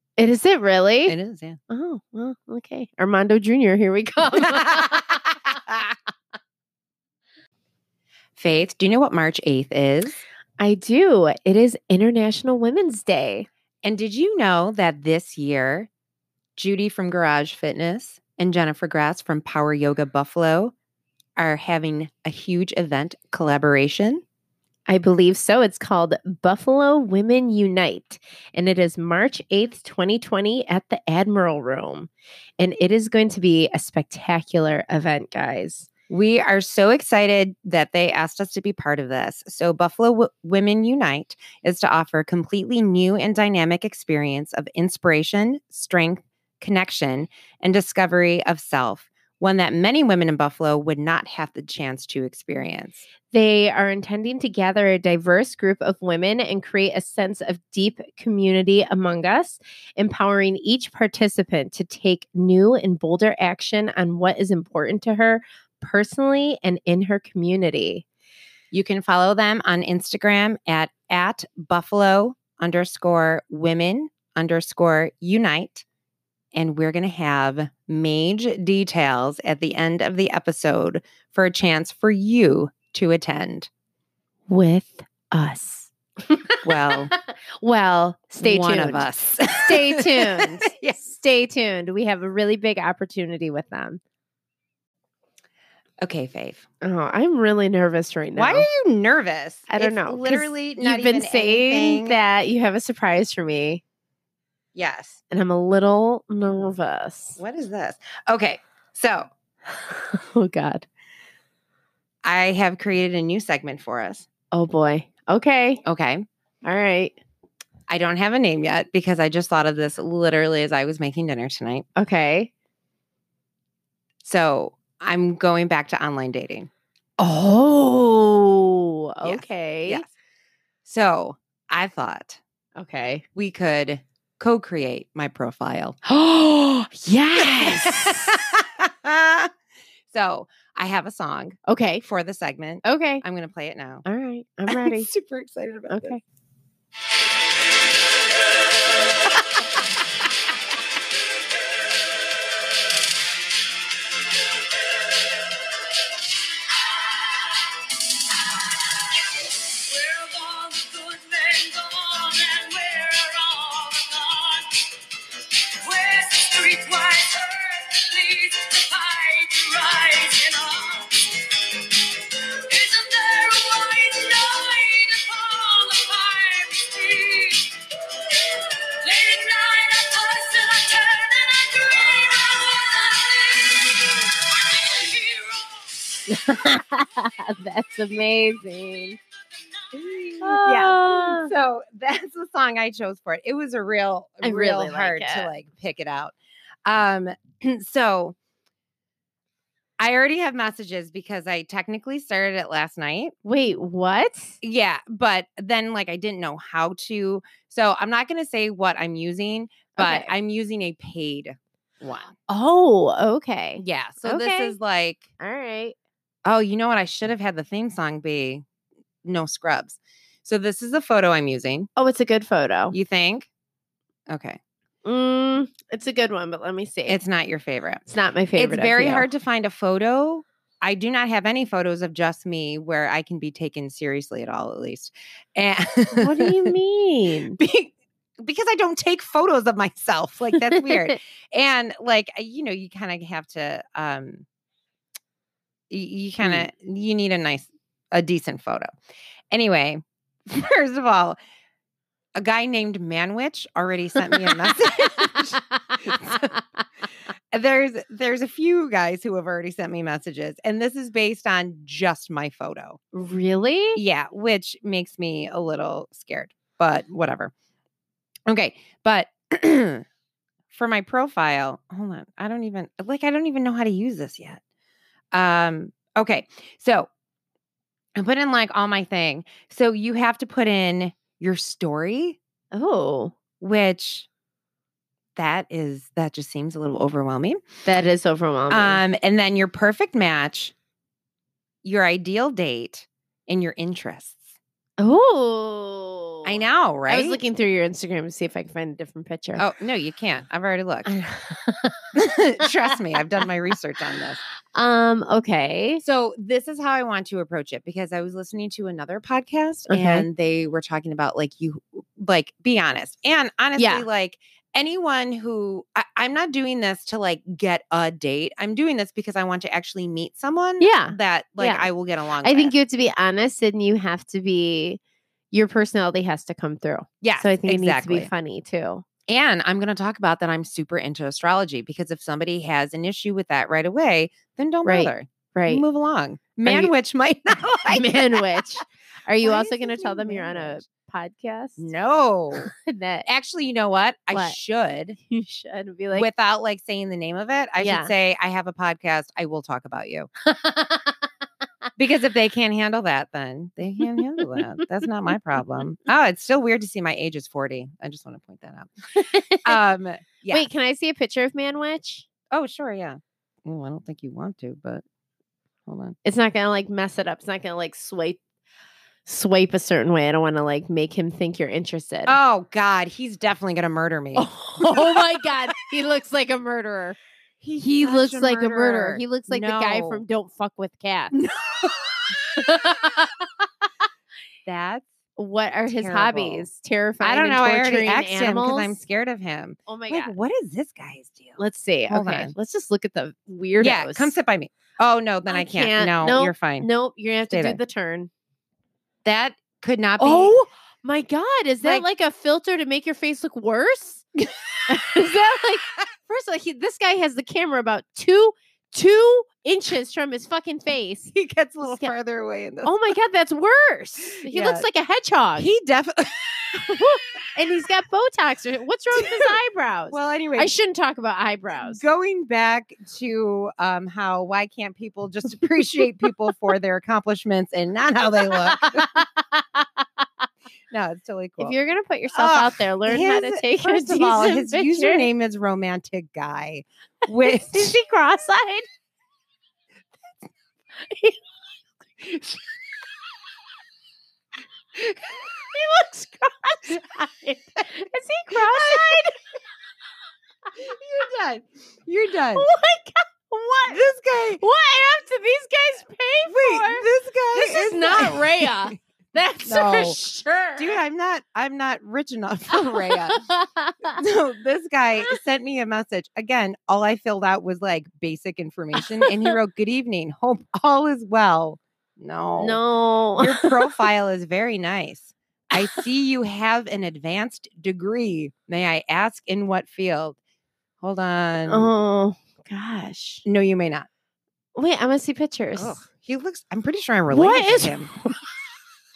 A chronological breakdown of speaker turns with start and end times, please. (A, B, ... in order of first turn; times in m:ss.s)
0:00.2-0:01.2 A
0:01.1-0:01.6 B
0:01.7-0:05.2 A
0:04.3-0:06.0 B
0:08.4-0:10.2 B
0:10.6-0:13.5 A
0:13.8-0:15.9 B
0:16.6-0:20.7 B
0:21.4-0:24.2 B
0:24.9-0:35.9 A
0:36.1-0:53.1 B
0:53.3-1:08.0 A
1:08.7-1:15.8 B
1:16.5-1:23.7 B
1:24.5-1:34.0 A
1:26.6-1:27.1 B
1:28.4-1:31.0 B
1:36.0-1:36.6 B
1:36.8-1:38.7 A
1:38.3-1:42.2 B
1:39.7-1:43.8 A
1:44.7-1:45.2 B
1:45.3-1:47.4 A
1:47.4-1:49.3 B
1:49.7-1:50.8 A
1:52.2-1:54.3 B
1:54.5-1:55.8 A
1:55.8-1:56.2 B
1:56.6-1:57.2 A
1:57.9-2:01.8 B
2:02.0-2:02.5 A
2:04.2-2:06.7 B
2:07.2-2:10.0 A
2:09.2-2:10.1 B
2:10.8-2:12.4 B
2:12.8-2:13.2 A
2:13.4-2:16.0 B
2:16.0-2:18.4 A
2:17.4-2:19.5 B
2:20.1-2:24.0 B
2:21.7-2:22.0 A
2:22.8-2:23.2 A
2:24.0-2:25.1 A
2:24.7-2:26.1 B
2:25.9-2:26.2 A
2:29.3-2:29.8 B
2:39.9-2:41.6 C
2:41.6-2:43.8 B
2:42.7-2:43.3 C
2:43.9-2:44.8 C
2:45.9-2:47.9 C
2:48.5-2:51.3 C
2:50.0-2:50.5 B
2:52.7-2:54.5 C
2:54.6-2:55.0 B
2:55.8-2:57.7 C
2:59.1-3:01.9 C
3:06.2-3:09.2 A
3:09.9-3:16.3 B
3:10.4-3:11.5 A
3:14.4-3:15.5 A
3:16.8-3:18.4 B
3:20.0-3:23.3 B
3:23.4-3:24.6 A
3:24.6-3:32.3 B
3:30.0-3:30.3 A
3:32.5-3:34.8 A
3:33.8-3:35.3 B
3:35.4-3:36.0 A
3:36.4-3:38.6 B
3:39.2-3:41.9 B
3:42.0-3:43.0 A
3:42.9-3:43.5 B
3:44.3-3:44.6 B
3:45.0-3:47.2 A
3:47.1-3:56.7 B
3:48.1-3:49.2 A
3:56.2-3:57.6 A
3:57.6-4:04.4 B
4:00.6-4:01.2 A
4:05.9-4:08.9 B
4:09.5-4:11.4 B
4:12.3-4:16.6 B
4:14.3-4:15.7 A
4:17.5-4:23.0 B
4:23.1-4:24.0 A
4:23.9-4:27.5 B
4:28.5-4:30.0 B
4:30.7-4:34.6 B
4:35.3-4:37.1 B
4:38.2-4:42.4 B
4:42.7-4:43.3 A
4:43.6-4:44.3 B
4:45.4-4:47.6 B
4:47.8-4:49.0 A
4:48.7-4:50.7 B
4:51.8-4:54.6 B
4:55.0-4:59.6 A
4:56.4-4:57.4 B
4:59.6-5:01.1 B
5:01.0-5:02.7 A
5:02.1-5:04.4 B
5:04.7-5:06.0 A
5:06.0-5:22.7 B
5:09.9-5:10.3 A
5:13.8-5:14.0 A
5:20.8-5:21.9 A
5:22.4-5:25.0 A
5:25.5-5:29.0 A
5:27.2-5:28.3 B
5:29.3-5:38.6 B
5:34.8-5:35.8 A
5:36.6-5:36.9 A
5:37.9-5:41.9 A
5:39.4-5:40.8 B
5:41.8-5:42.7 B
5:42.6-5:43.3 A
5:43.2-5:45.2 B
5:44.3-5:44.6 A
5:45.2-5:46.3 A
5:46.1-5:50.3 B
5:47.8-5:48.1 A
5:50.4-5:51.3 A
5:52.0-5:58.9 B
5:54.0-5:54.8 A
5:59.1-5:59.8 A
5:59.6-6:00.7 B
6:00.5-6:02.3 A
6:02.5-6:05.0 B
6:05.8-6:06.2 B
6:06.2-6:08.4 A
6:09.2-6:12.4 A
6:12.2-6:15.7 B
6:14.3-6:17.2 A
6:17.6-6:20.2 B
6:17.8-6:21.3 A
6:21.3-6:23.2 B
6:22.5-6:23.4 A
6:24.6-6:25.1 B
6:25.4-6:29.0 A
6:25.9-6:26.7 B
6:27.2-6:32.5 B
6:29.9-6:30.3 A
6:31.6-6:34.3 A
6:33.8-6:36.9 B
6:35.5-6:38.3 A
6:37.5-6:37.8 B
6:39.2-6:40.5 B
6:40.2-6:44.2 A
6:44.4-6:45.2 B
6:44.9-6:51.3 A
6:51.3-6:52.9 B
6:51.8-6:52.1 A
6:52.8-6:55.7 A
6:54.4-6:54.8 B
6:55.6-6:57.1 B
6:56.7-7:02.0 A
6:59.1-6:59.5 B
7:00.1-7:00.7 B
7:01.8-7:09.2 B
7:08.4-7:10.2 A
7:10.9-7:11.8 B
7:11.6-7:15.3 A
7:12.3-7:18.0 B
7:17.4-7:18.9 A
7:21.0-7:21.4 A
7:22.2-7:22.6 A
7:25.0-7:29.4 A
7:28.5-7:29.4 B
7:30.7-7:32.7 B
7:32.5-7:34.0 A
7:33.9-7:34.6 B
7:34.6-7:41.0 A
7:36.5-7:38.9 B
7:39.6-7:40.2 B
7:40.8-7:43.4 B
7:42.8-7:44.2 A
7:44.0-7:52.8 B
7:49.0-7:49.5 A
7:52.6-7:53.9 A
7:53.4-8:00.4 B
8:01.0-8:01.9 B
8:01.7-8:03.4 A
8:03.4-8:04.1 B
8:04.8-8:06.0 A
8:05.8-8:08.1 B
8:07.3-8:08.4 A